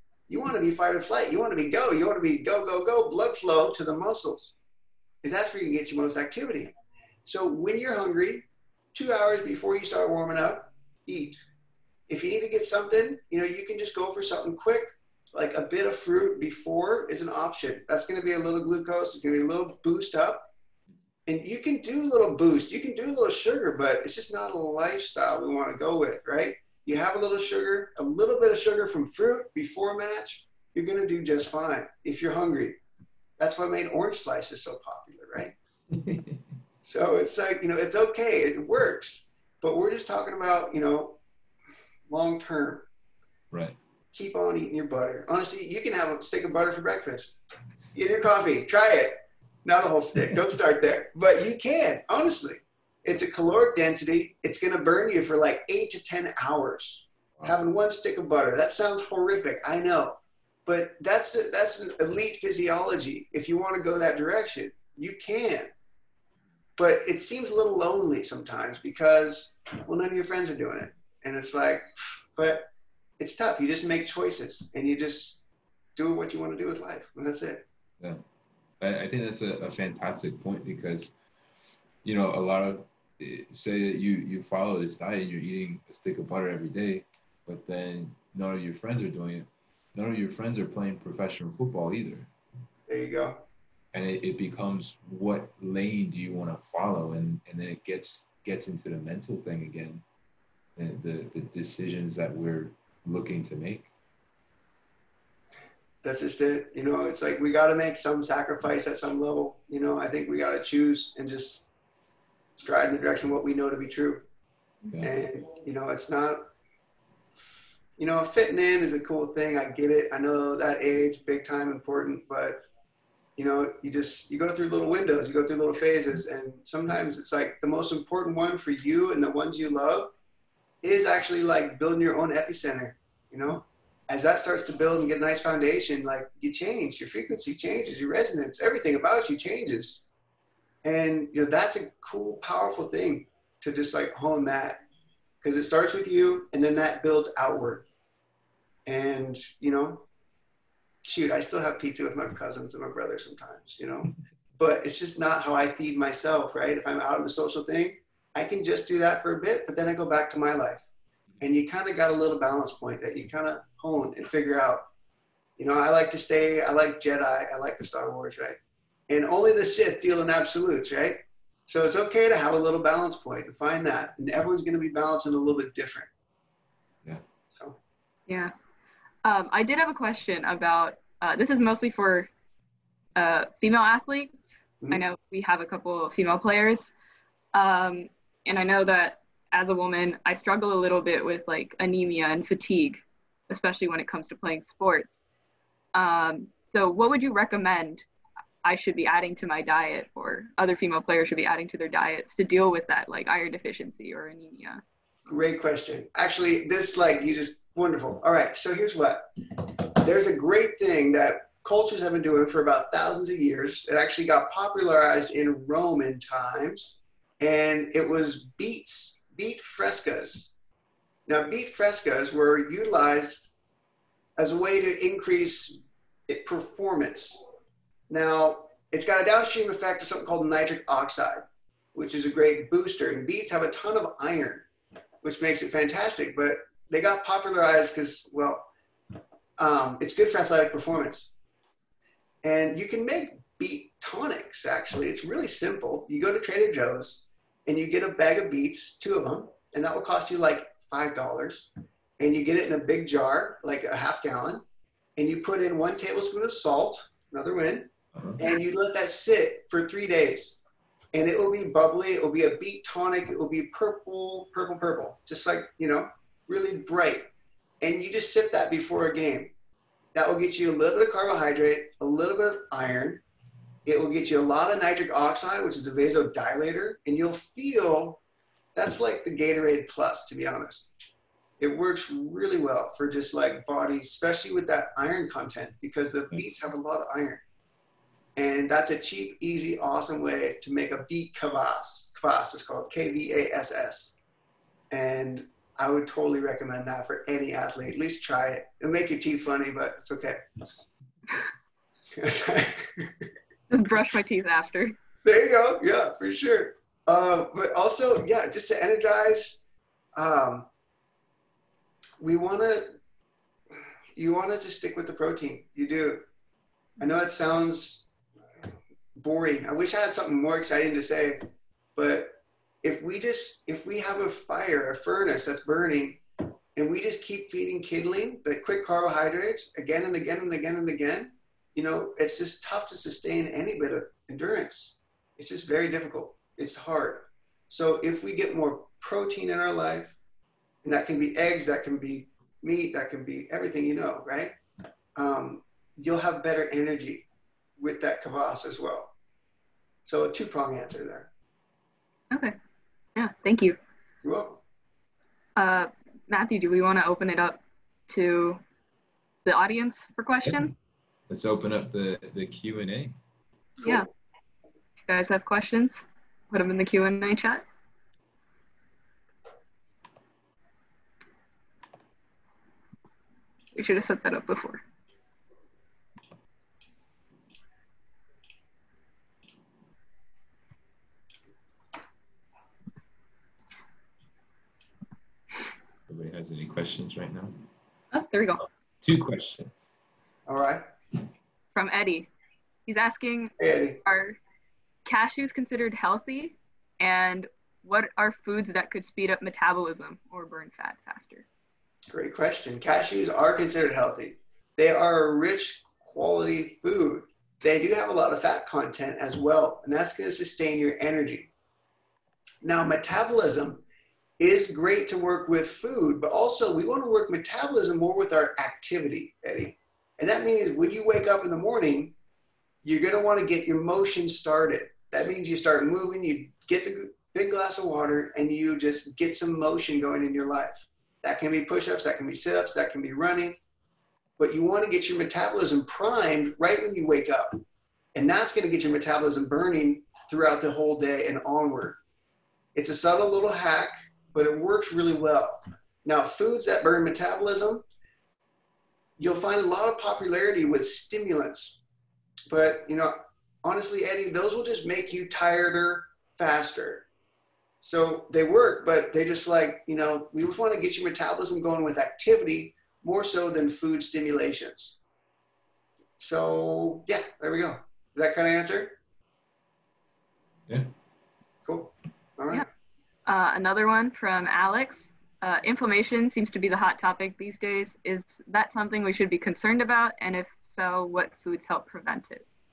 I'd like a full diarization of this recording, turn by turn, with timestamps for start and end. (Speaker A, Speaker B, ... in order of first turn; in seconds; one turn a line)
Speaker A: 0.3-4.5
Speaker A: 5.2-6.7
Speaker A: 7.2-11.4
Speaker A: 12.1-20.5
Speaker A: 21.2-32.8
Speaker A: 33.4-35.5
Speaker B: 35.9-36.4
Speaker A: 36.8-41.2
Speaker A: 42.1-42.9
Speaker B: 43.5-43.8
Speaker A: 44.1-47.4
Speaker A: 47.9-65.7
Speaker A: 66.8-75.4
Speaker A: 76.0-77.6
Speaker B: 78.8-81.1
Speaker B: 82.0-92.3
Speaker A: 92.9-93.4
Speaker B: 93.9-100.0
Speaker B: 100.8-103.9
Speaker A: 106.0-111.7
Speaker A: 112.6-114.2
Speaker A: 115.0-116.5
Speaker A: 118.0-122.6
Speaker A: 123.4-130.1
Speaker A: 130.8-140.0
Speaker A: 140.8-144.8
Speaker A: 145.4-147.8
Speaker A: 148.8-150.1
Speaker A: 151.1-160.8
Speaker A: 161.4-164.8
Speaker A: 165.6-176.1
Speaker C: 178.3-178.5
Speaker C: 179.2-182.3
Speaker C: 183.2-184.4
Speaker C: 184.9-186.9
Speaker C: 187.5-195.1
Speaker C: 195.9-198.0
Speaker C: 198.6-204.8
Speaker A: 205.3-220.5
Speaker A: 221.2-223.5
Speaker A: 224.4-227.4
Speaker A: 228.1-234.7
Speaker A: 235.2-238.7
Speaker A: 239.6-241.3
Speaker A: 242.4-254.6
Speaker A: 255.2-260.6
Speaker A: 261.1-267.3
Speaker A: 267.8-269.5
Speaker A: 270.1-273.2
Speaker A: 273.8-278.2
Speaker A: 278.7-280.9
Speaker A: 281.6-287.4
Speaker A: 288.4-294.1
Speaker A: 294.9-300.4
Speaker A: 302.1-303.3
Speaker C: 303.7-304.9
Speaker A: 305.2-309.6
Speaker A: 310.1-310.7
Speaker A: 312.2-312.9
Speaker A: 314.1-316.2
Speaker A: 317.0-318.0
Speaker A: 319.1-321.4
Speaker A: 321.9-326.2
Speaker A: 326.7-340.2
Speaker A: 340.8-344.6
Speaker A: 345.1-347.2
Speaker A: 347.8-349.1
Speaker A: 350.0-351.3
Speaker C: 353.1-353.8
Speaker A: 354.2-354.6
Speaker C: 355.6-358.6
Speaker C: 359.4-360.7
Speaker B: 361.3-363.1
Speaker C: 363.8-364.1
Speaker C: 365.1-365.9
Speaker C: 366.5-367.6
Speaker C: 373.7-374.8
Speaker B: 386.1-387.6
Speaker C: 388.1-388.6
Speaker B: 389.0-389.9
Speaker A: 390.5-390.8
Speaker C: 391.7-392.3
Speaker C: 392.9-394.4
Speaker A: 393.6-394.0
Speaker C: 395.0-401.4
Speaker A: 402.1-411.5
Speaker A: 412.6-413.8
Speaker A: 414.4-422.1
Speaker A: 422.8-433.6
Speaker A: 434.4-437.6
Speaker A: 438.1-442.0
Speaker A: 442.7-447.8
Speaker A: 449.2-451.8
Speaker A: 452.5-457.1
Speaker A: 457.8-464.9
Speaker A: 466.2-468.9
Speaker A: 471.6-472.6
Speaker C: 473.2-482.4